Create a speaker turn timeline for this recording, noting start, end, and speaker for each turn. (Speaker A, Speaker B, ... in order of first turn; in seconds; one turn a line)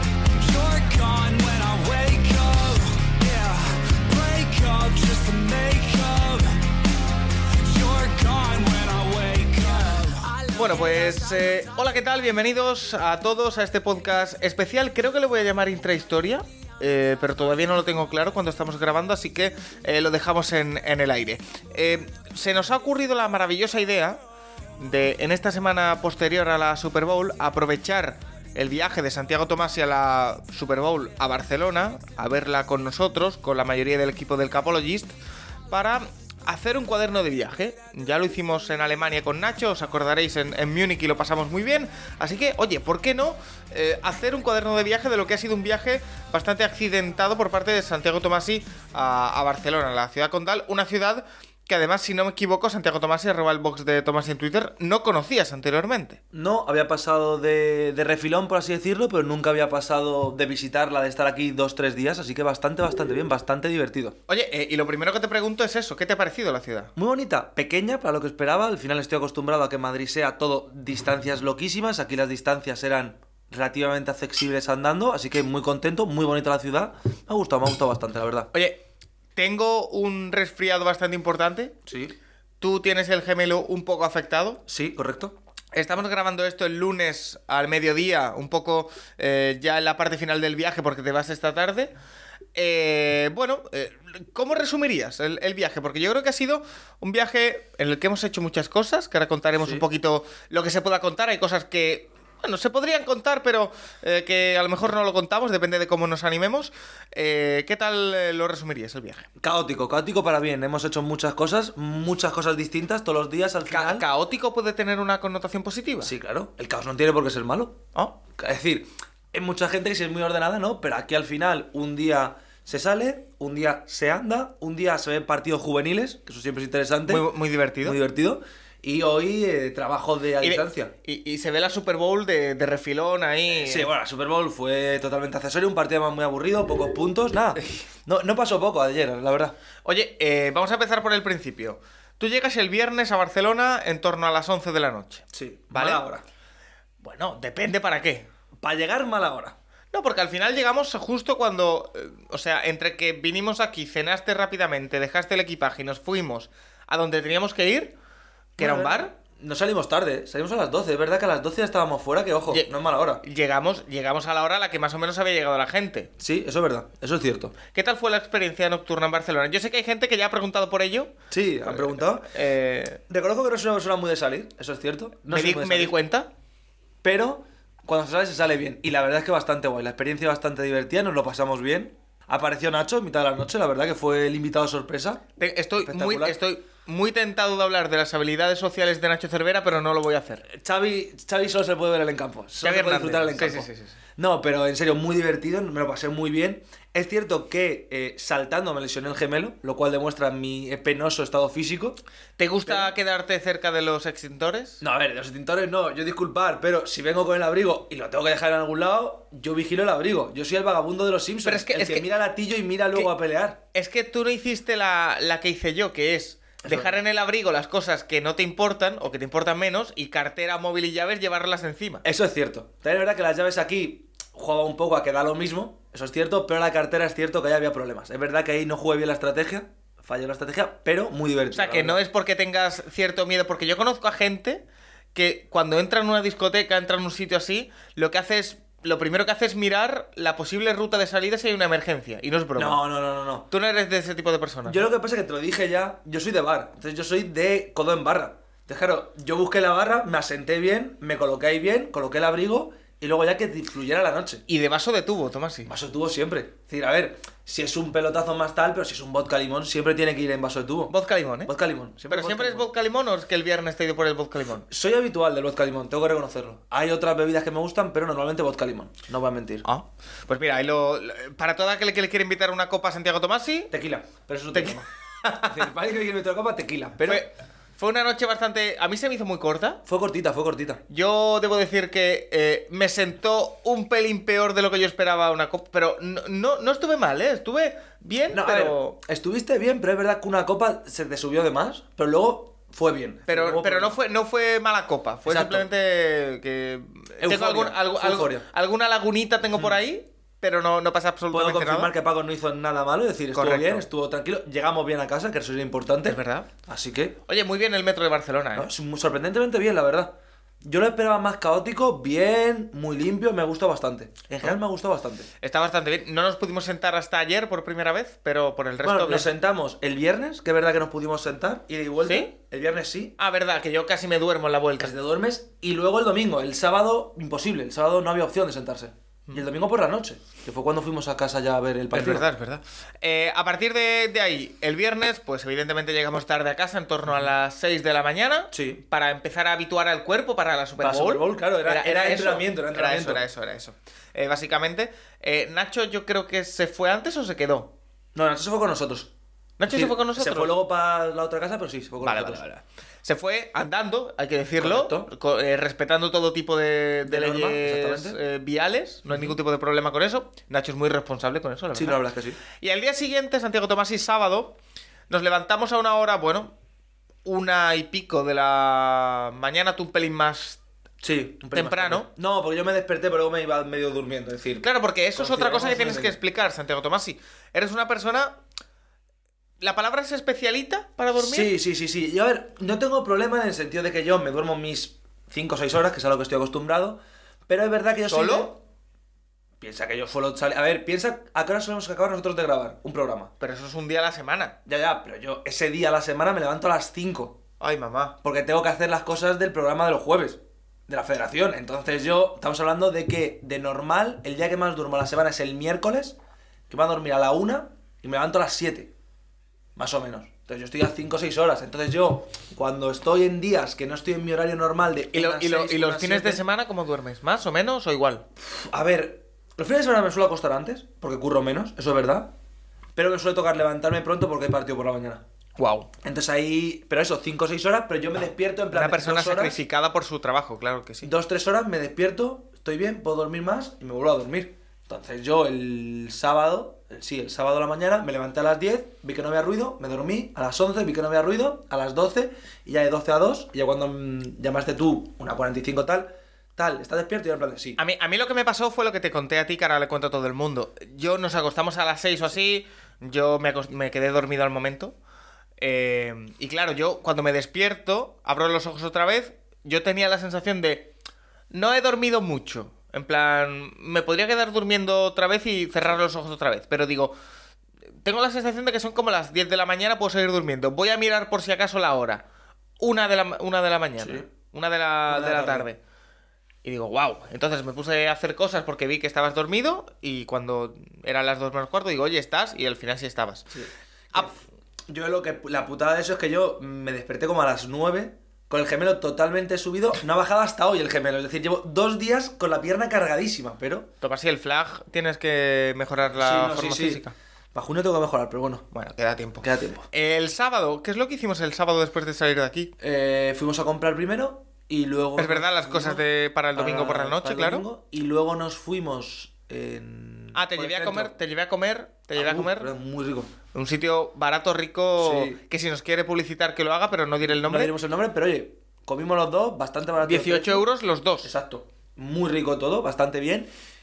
Speaker A: 0.3-6.6
Speaker A: 7.6-10.5
Speaker B: 10.5-24.2
Speaker B: 24.8-35.1
Speaker B: 35.7-56.2
Speaker C: 56.3-64.2
Speaker B: 64.3-66.9
Speaker C: 67.0-78.5
Speaker B: 78.5-78.8
Speaker B: 79.3-81.7
Speaker C: 81.9-82.1
Speaker B: 82.6-84.6
Speaker C: 84.7-85.3
Speaker B: 85.7-91.9
Speaker B: 92.5-109.3
Speaker C: 99.6-99.8
Speaker C: 109.4-114.0
Speaker B: 113.7-116.1
Speaker C: 116.0-117.8
Speaker C: 118.3-127.3
Speaker B: 127.1-128.0
Speaker C: 127.8-130.9
Speaker B: 130.4-133.9
Speaker C: 133.5-139.5
Speaker B: 139.8-146.0
Speaker C: 145.3-146.2
Speaker B: 147.0-148.3
Speaker C: 148.6-149.6
Speaker B: 149.9-157.9
Speaker B: 158.6-159.1
Speaker C: 158.6-163.2
Speaker B: 163.2-166.1
Speaker C: 166.2-167.6
Speaker B: 167.7-171.1
Speaker C: 171.3-172.3
Speaker B: 171.7-173.0
Speaker C: 173.1-175.9
Speaker B: 175.3-176.3
Speaker C: 177.0-185.2
Speaker B: 185.4-190.4
Speaker C: 185.8-186.4
Speaker C: 190.4-202.0
Speaker B: 192.6-194.0
Speaker B: 202.4-204.8
Speaker C: 202.6-202.9
Speaker C: 204.8-213.6
Speaker B: 211.4-212.1
Speaker B: 213.7-222.0
Speaker C: 216.6-216.9
Speaker C: 222.0-232.0
Speaker B: 231.5-234.6
Speaker B: 235.1-242.8
Speaker C: 242.6-243.5
Speaker B: 243.5-244.8
Speaker C: 244.6-254.4
Speaker B: 254.5-255.7
Speaker C: 255.7-260.9
Speaker B: 260.9-261.5
Speaker C: 261.4-262.7
Speaker B: 262.1-264.7
Speaker C: 264.7-269.6
Speaker B: 269.6-273.7
Speaker C: 273.7-274.9
Speaker B: 274.5-275.6
Speaker C: 275.4-277.3
Speaker B: 277.0-279.8
Speaker C: 279.9-280.8
Speaker B: 280.9-289.0
Speaker C: 288.3-294.0
Speaker B: 293.3-301.9
Speaker C: 295.2-295.7
Speaker C: 297.2-298.4
Speaker C: 301.3-307.2
Speaker B: 303.3-303.8
Speaker B: 306.1-306.5
Speaker B: 307.3-308.7
Speaker C: 308.5-315.3
Speaker B: 315.4-319.3
Speaker C: 318.8-323.1
Speaker B: 323.2-324.9
Speaker C: 324.8-332.3
Speaker B: 331.9-347.7
Speaker C: 338.5-338.8
Speaker C: 340.8-343.2
Speaker C: 348.1-349.1
Speaker B: 349.6-350.5
Speaker C: 349.7-352.4
Speaker B: 352.0-362.0
Speaker C: 354.6-355.1
Speaker C: 357.0-358.2
Speaker C: 359.1-359.4
Speaker C: 361.7-362.4
Speaker B: 362.6-364.5
Speaker B: 365.1-366.5
Speaker B: 367.2-370.6
Speaker C: 371.0-376.2
Speaker B: 371.5-372.1
Speaker B: 374.6-378.4
Speaker B: 379.6-381.5
Speaker C: 381.1-388.6
Speaker B: 388.1-388.5
Speaker C: 389.6-393.3
Speaker B: 393.4-394.5
Speaker C: 394.6-397.4
Speaker B: 397.6-398.1
Speaker C: 398.2-406.2
Speaker C: 406.7-408.9
Speaker C: 409.8-416.4
Speaker B: 415.1-418.2
Speaker C: 418.4-422.3
Speaker C: 422.9-425.2
Speaker B: 425.6-425.9
Speaker C: 426.0-429.6
Speaker B: 428.7-431.1
Speaker C: 431.0-447.8
Speaker B: 447.8-454.9
Speaker B: 455.6-460.9
Speaker B: 461.5-467.1
Speaker B: 468.0-472.2
Speaker B: 472.8-475.8
Speaker C: 474.0-474.3
Speaker C: 475.1-475.7
Speaker B: 476.6-483.5
Speaker C: 483.5-493.9
Speaker B: 494.0-497.1
Speaker C: 496.0-497.0
Speaker C: 497.5-498.6
Speaker B: 498.7-502.7
Speaker C: 499.4-499.9
Speaker C: 502.8-506.0
Speaker B: 505.2-507.6
Speaker C: 506.5-511.1
Speaker B: 510.3-512.7
Speaker C: 512.1-513.3
Speaker B: 513.5-517.7
Speaker C: 515.0-515.4
Speaker C: 517.2-520.7
Speaker B: 520.0-521.3
Speaker C: 521.2-523.5